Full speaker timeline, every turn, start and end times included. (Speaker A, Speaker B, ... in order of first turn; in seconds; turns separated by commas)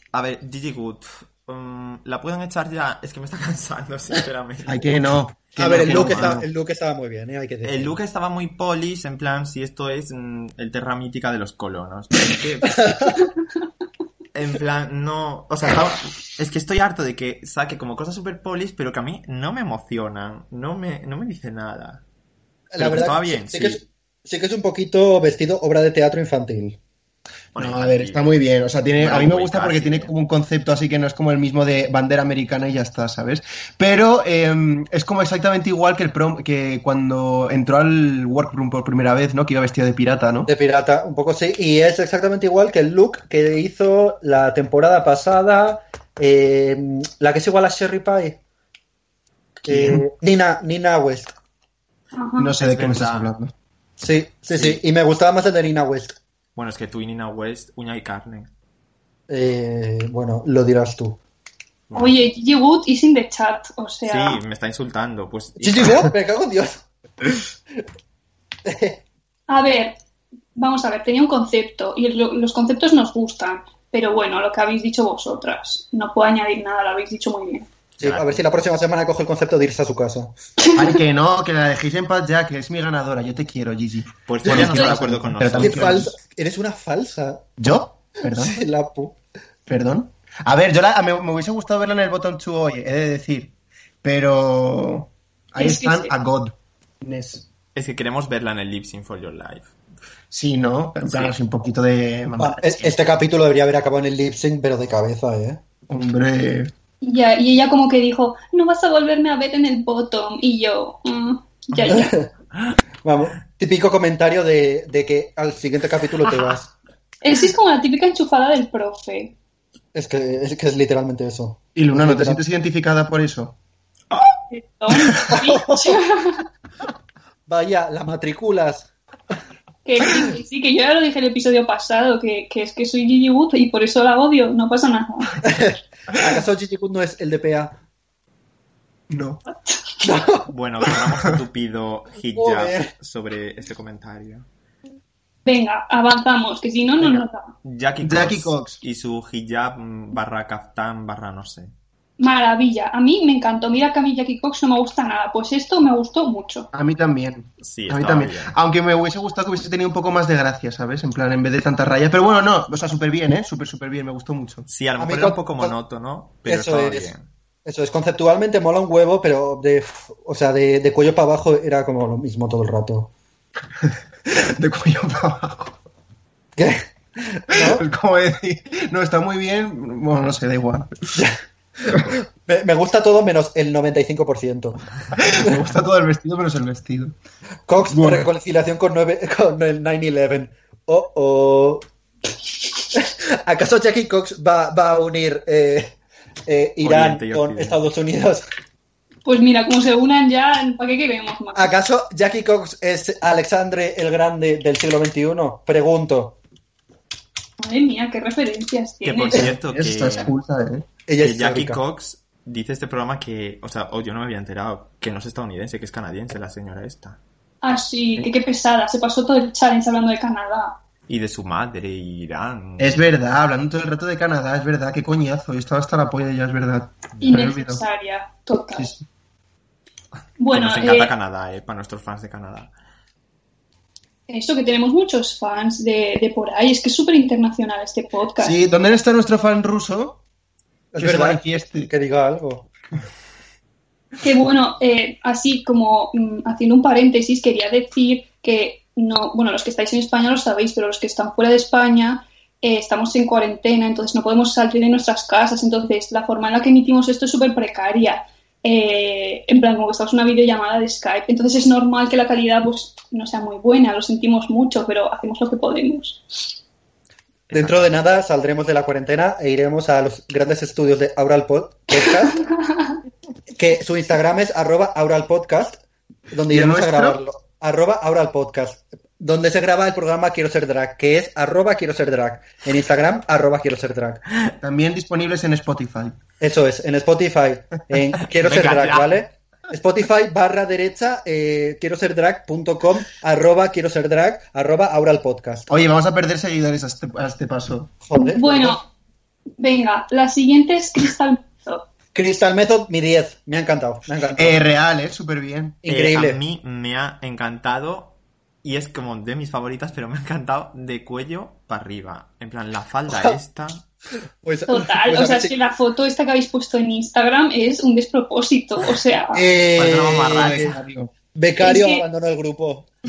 Speaker A: 0.1-6.4, Speaker B: 4.7-6.4, Speaker C: 5.6-7.9, Speaker A: 7.6-13.2, Speaker A: 14.3-22.0, Speaker C: 22.7-26.8, Speaker A: 22.8-23.8, Speaker A: 27.5-28.2, Speaker B: 27.6-40.5, Speaker A: 29.0-30.1, Speaker C: 40.5-48.4, Speaker C: 49.6-51.3, Speaker B: 49.7-50.0, Speaker D: 52.1-52.5, Speaker B: 52.4-53.5, Speaker A: 52.6-53.3, Speaker C: 54.0-56.2, Speaker A: 54.5-54.8, Speaker A: 56.5-58.5, Speaker C: 59.3-61.2, Speaker A: 61.9-62.2, Speaker D: 61.9-64.4, Speaker A: 64.0-66.1, Speaker C: 65.6-67.4, Speaker C: 68.6-69.0, Speaker D: 69.5-69.9, Speaker D: 70.5-77.7, Speaker A: 78.0-78.4, Speaker C: 78.0-80.3, Speaker D: 80.6-81.0, Speaker B: 80.7-86.1, Speaker A: 84.3-86.1, Speaker C: 85.6-87.5, Speaker B: 87.6-88.6, Speaker C: 88.3-89.2, Speaker B: 89.7-97.5, Speaker D: 95.6-96.1, Speaker A: 97.7-99.7, Speaker B: 100.3-102.9, Speaker A: 101.0-101.3, Speaker C: 102.4-105.6, Speaker B: 105.9-106.7, Speaker D: 107.0-112.1, Speaker C: 111.9-112.3, Speaker C: 113.0-116.7, Speaker A: 116.3-116.6, Speaker D: 117.2-119.3, Speaker C: 119.9-122.4, Speaker B: 121.7-123.5, Speaker D: 124.5-126.4, Speaker B: 124.9-125.4, Speaker C: 127.5-128.9, Speaker D: 129.8-135.4, Speaker C: 135.4-137.7, Speaker B: 139.1-139.4, Speaker D: 139.5-139.8, Speaker C: 140.0-140.5, Speaker A: 140.5-144.5, Speaker C: 142.3-142.9, Speaker D: 145.4-147.5, Speaker A: 147.0-151.7, Speaker B: 148.0-148.8, Speaker D: 152.2-156.7, Speaker B: 156.7-164.7, Speaker A: 157.6-158.5, Speaker A: 164.7-167.3, Speaker C: 165.0-165.7, Speaker C: 166.4-167.1, Speaker C: 167.6-173.1, Speaker B: 173.8-175.8, Speaker C: 176.6-177.8, Speaker B: 177.5-181.2, Speaker C: 181.1-184.8, Speaker B: 185.1-187.1, Speaker C: 187.7-191.8, Speaker B: 187.9-188.3, Speaker C: 192.9-195.9, Speaker C: 196.4-198.4, Speaker A: 196.8-197.8, Speaker D: 199.2-201.7, Speaker C: 201.5-206.4, Speaker D: 207.6-209.4, Speaker A: 209.0-210.3, Speaker B: 209.3-210.9, Speaker C: 211.1-211.8, Speaker A: 211.2-217.2, Speaker D: 217.6-220.8, Speaker A: 221.1-223.1, Speaker B: 222.8-227.8, Speaker D: 227.2-228.9, Speaker B: 228.8-229.0, Speaker D: 230.4-231.1, Speaker A: 230.5-232.7, Speaker D: 234.3-238.5, Speaker B: 238.4-240.2, Speaker C: 240.9-242.7, Speaker B: 241.0-241.9, Speaker D: 244.2-266.5, Speaker A: 267.5-267.9, Speaker C: 267.5-272.4, Speaker D: 272.0-273.0, Speaker C: 273.5-275.8, Speaker C: 276.3-284.2, Speaker B: 276.5-277.2, Speaker B: 284.6-286.2, Speaker C: 286.4-295.7, Speaker A: 288.3-289.2, Speaker B: 295.7-297.9, Speaker C: 298.0-298.8, Speaker D: 298.1-298.8, Speaker D: 299.6-301.9, Speaker C: 302.1-304.6, Speaker B: 304.4-305.8, Speaker C: 305.8-306.4, Speaker A: 305.9-313.8, Speaker C: 313.1-313.4, Speaker C: 314.4-315.5, Speaker D: 314.7-319.4, Speaker C: 319.3-320.7, Speaker A: 319.8-320.8, Speaker B: 319.8-321.1, Speaker C: 321.3-322.9, Speaker D: 321.6-322.0